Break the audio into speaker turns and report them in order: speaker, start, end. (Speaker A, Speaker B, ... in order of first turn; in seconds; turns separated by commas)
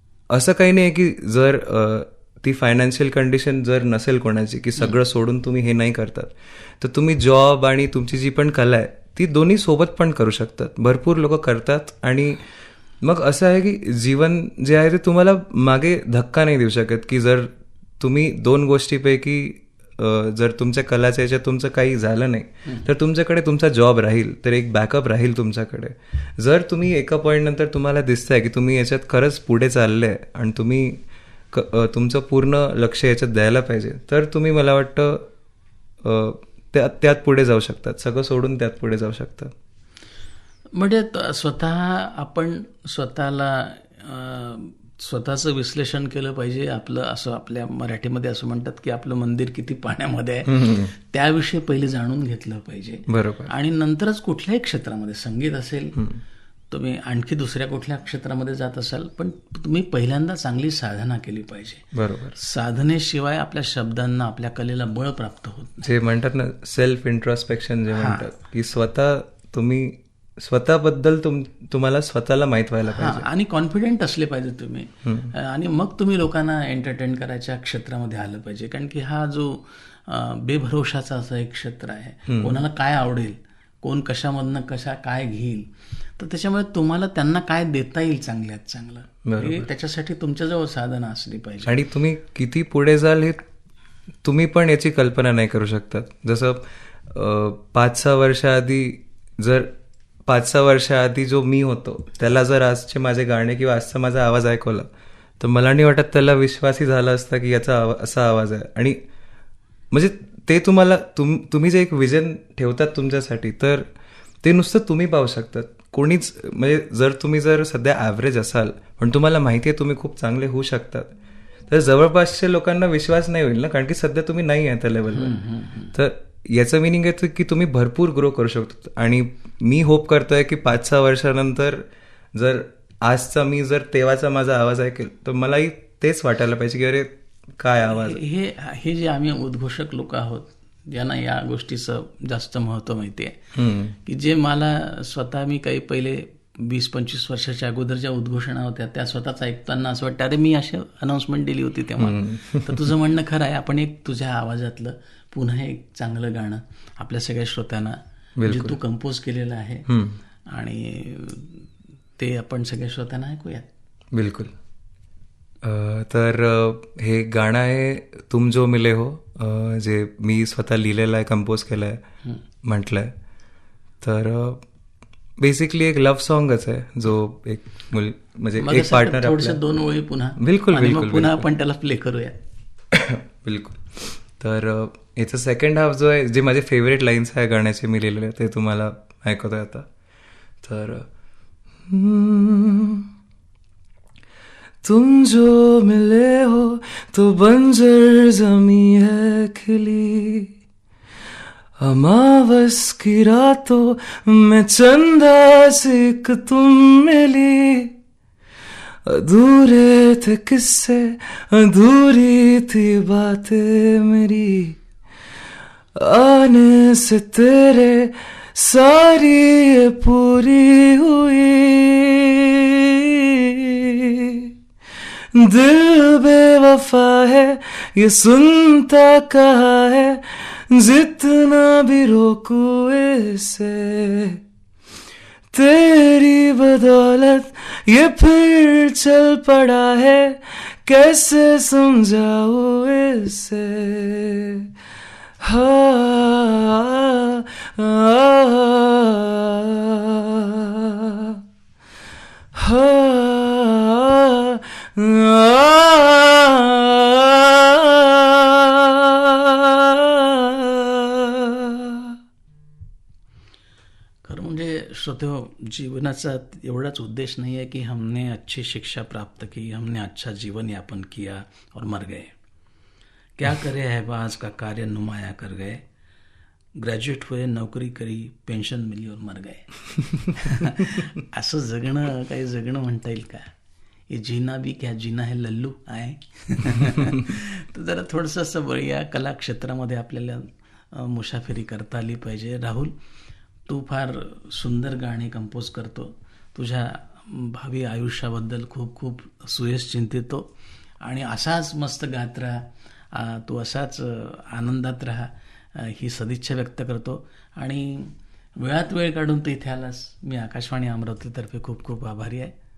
Speaker A: 0.3-12.4, Speaker A: 13.0-31.0, Speaker A: 31.5-35.3, Speaker A: 36.0-39.5, Speaker B: 40.7-56.0, Speaker A: 50.5-50.9, Speaker A: 53.1-53.5, Speaker B: 56.7-61.8, Speaker A: 61.9-62.4, Speaker B: 62.4-65.9, Speaker A: 65.8-73.2, Speaker B: 67.9-68.3, Speaker B: 72.9-91.7, Speaker A: 75.0-75.3, Speaker A: 82.3-82.5, Speaker A: 89.2-89.7, Speaker A: 91.6-93.4, Speaker A: 94.2-99.7, Speaker A: 100.2-109.0, Speaker A: 109.9-113.8, Speaker A: 114.4-121.1, Speaker A: 121.7-125.4, Speaker B: 125.1-125.9, Speaker A: 125.9-138.2, Speaker B: 137.9-143.4, Speaker A: 143.5-143.9, Speaker B: 144.0-159.9, Speaker A: 152.0-152.8, Speaker A: 158.4-158.8, Speaker A: 159.9-160.2, Speaker B: 160.5-161.7, Speaker B: 162.2-163.7, Speaker A: 164.1-164.5, Speaker A: 165.6-172.0, Speaker A: 172.6-173.1, Speaker A: 174.0-174.6, Speaker A: 175.4-179.6, Speaker B: 178.6-182.3, Speaker A: 180.4-181.4, Speaker A: 182.9-189.8, Speaker A: 190.6-191.1, Speaker A: 191.8-193.1, Speaker A: 194.8-200.5, Speaker A: 201.8-207.9, Speaker A: 209.0-214.8, Speaker A: 215.9-224.5, Speaker A: 225.3-234.4, Speaker A: 235.5-244.7, Speaker A: 245.4-251.4, Speaker A: 252.5-262.1, Speaker B: 264.2-272.3, Speaker B: 273.4-275.8, Speaker B: 276.8-283.5, Speaker B: 284.1-292.9, Speaker B: 293.7-300.5, Speaker B: 301.0-312.5